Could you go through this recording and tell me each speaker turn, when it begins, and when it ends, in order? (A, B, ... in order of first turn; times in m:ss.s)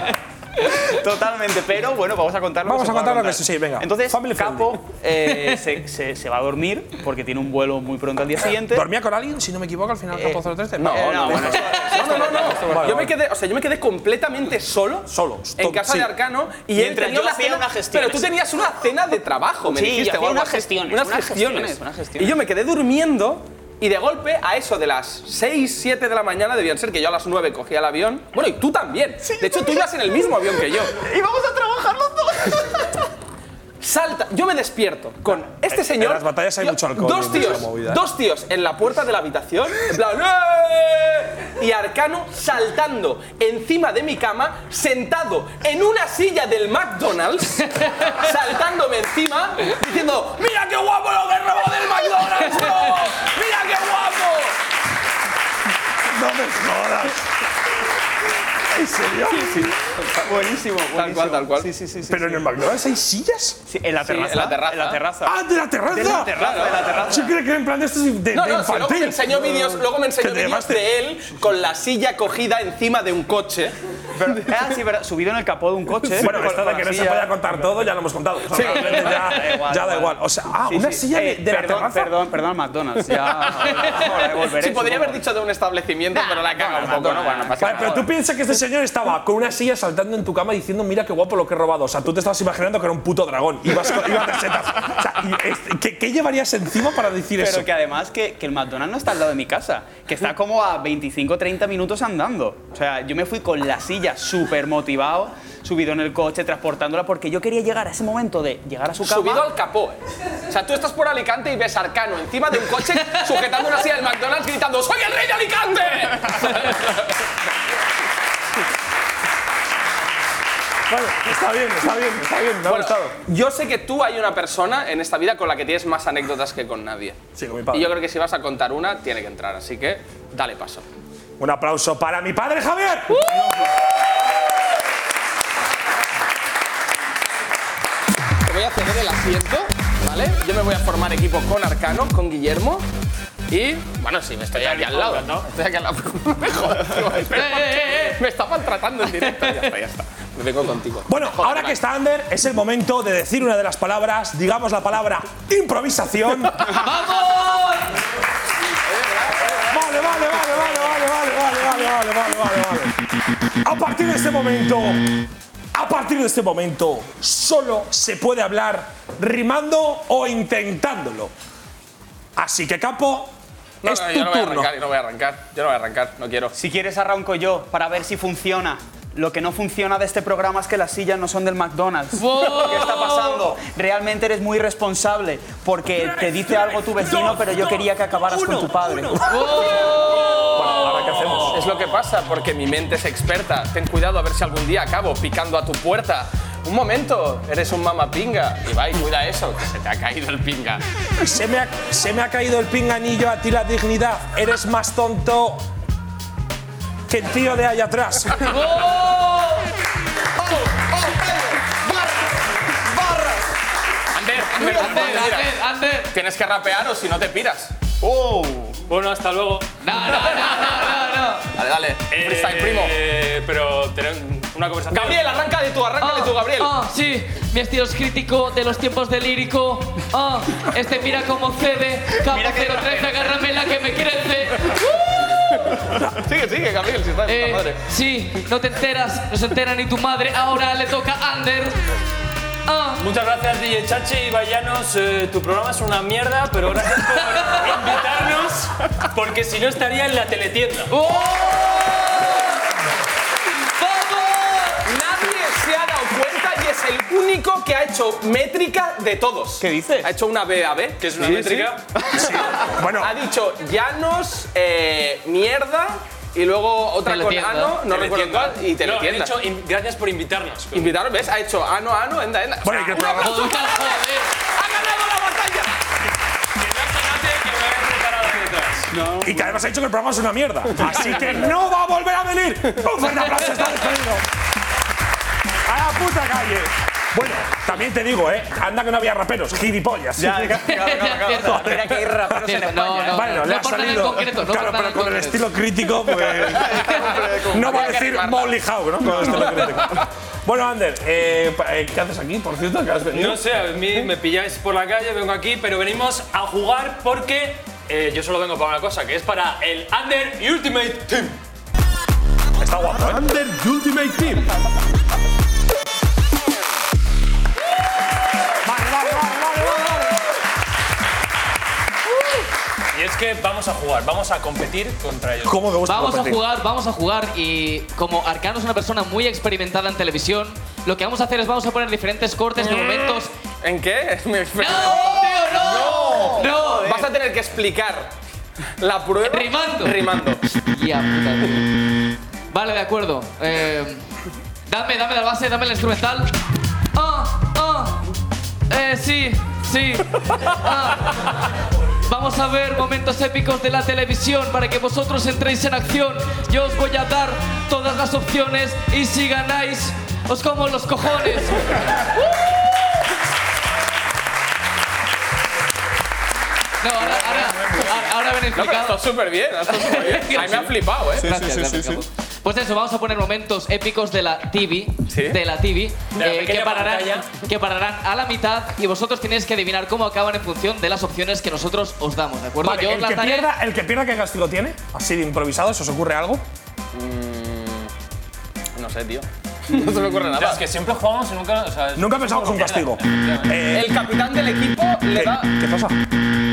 0:00.8-0:08.9 A
0:02.6-0:04.8 B
0:08.7-0:13.1 B
0:10.1-0:13.1 A
0:10.8-0:31.0 C
0:15.1-0:16.1 B
0:16.7-0:18.4 A
0:19.6-0:22.4 A
0:29.2-0:33.0 A
0:33.8-0:54.6 C
0:35.7-0:38.0 B
0:56.1-0:57.2 B
0:58.7-0:59.7 B
0:59.1-1:02.5 A
1:00.9-1:01.7 C
1:02.1-1:03.6 B
1:03.7-1:07.4 A
1:04.0-1:05.0 C
1:05.2-1:10.9 B
1:06.4-1:07.0 C
1:08.3-1:13.8 C
1:14.2-1:17.5 A
1:16.2-1:22.2 B
1:18.5-1:25.2 A
1:18.6-1:19.0 C
1:24.5-1:28.0 C
1:26.1-1:28.1 A
1:27.6-1:37.7 B
1:37.4-1:49.5 A
1:49.0-1:57.2 C
2:00.9-2:03.2 B
2:02.7-2:07.2 C
2:07.4-2:08.0 B
2:07.7-2:10.8 C
2:11.4-2:13.3 B
2:18.4-2:22.8 C
2:23.5-2:31.8 C
2:24.5-2:25.5 D
2:27.3-2:28.2 E
2:31.1-2:36.8 B
2:36.7-2:38.0 E
2:39.1-2:40.6 C
2:39.5-2:43.0 B
2:43.6-2:45.1 B
2:45.7-2:51.3 B
2:52.4-2:54.7 B
2:53.8-2:56.6 C
2:56.6-3:09.3 A
3:02.2-3:03.4 E
3:09.2-3:11.1 E
3:10.5-3:11.7 B
3:11.1-3:11.4 D
3:11.5-3:20.8 C
3:21.2-3:25.7 B
3:27.1-3:28.6 B
3:28.5-3:29.7 E
3:31.0-3:31.3 A
3:33.0-3:33.3 A
3:34.1-3:35.5 C
3:34.6-3:36.1 E
3:36.1-3:37.7 C
3:38.0-3:38.8 A
3:38.9-3:39.7 D
3:39.8-3:41.5 E
3:41.5-3:43.0 C
3:42.1-3:45.4 D
3:44.9-3:46.7 C
3:46.0-3:55.5 E
3:52.3-3:53.3 A
3:56.1-3:57.8 C
3:57.3-4:01.8 E
4:02.7-4:03.0 E
4:03.0-4:11.0 D
4:07.4-4:07.7 E
4:10.9-4:12.6 E
4:13.8-4:14.8 E
4:14.8-4:29.4 C
4:19.6-4:20.1 A
4:21.0-4:21.9 D
4:22.2-4:23.2 B
4:27.0-4:27.8 E
4:27.8-4:31.0 D
4:30.7-4:35.7 C
4:32.6-4:33.6 B
4:33.0-4:34.3 E
4:36.6-4:38.9 D
4:38.9-4:39.6 A
4:39.2-4:44.3 B
4:45.6-4:50.8 B
4:50.2-4:53.3 A
4:50.7-4:55.5 E
4:51.3-4:52.5 B
4:53.0-5:03.7 B
4:56.2-4:57.9 A
4:56.8-4:59.9 C
5:03.1-5:11.4 D
5:12.6-5:13.3 B
5:18.6-5:20.3 B
5:22.9-5:25.6 D
5:25.4-5:26.4 B
5:25.9-5:33.3 E
5:32.6-5:38.1 C
5:34.6-5:37.0 E
5:35.8-5:36.6 A
5:38.8-5:40.4 C
5:39.2-5:40.0 E
5:40.6-5:41.7 E
5:42.5-5:44.0 E
5:44.7-5:46.3 E
5:46.9-5:48.0 E
5:48.7-5:51.3 E
5:52.1-6:02.6 E
6:06.8-6:09.0 E
6:08.6-6:11.3 C
6:09.7-6:23.5 E
6:11.2-6:12.0 A
6:15.1-6:15.4 C
6:16.1-6:17.3 D
6:22.6-6:26.4 B
6:26.9-6:27.9 C
6:28.8-6:30.7 C
6:30.3-6:33.6 D
6:32.0-6:34.1 B
6:33.7-6:35.5 C
6:35.1-6:36.0 B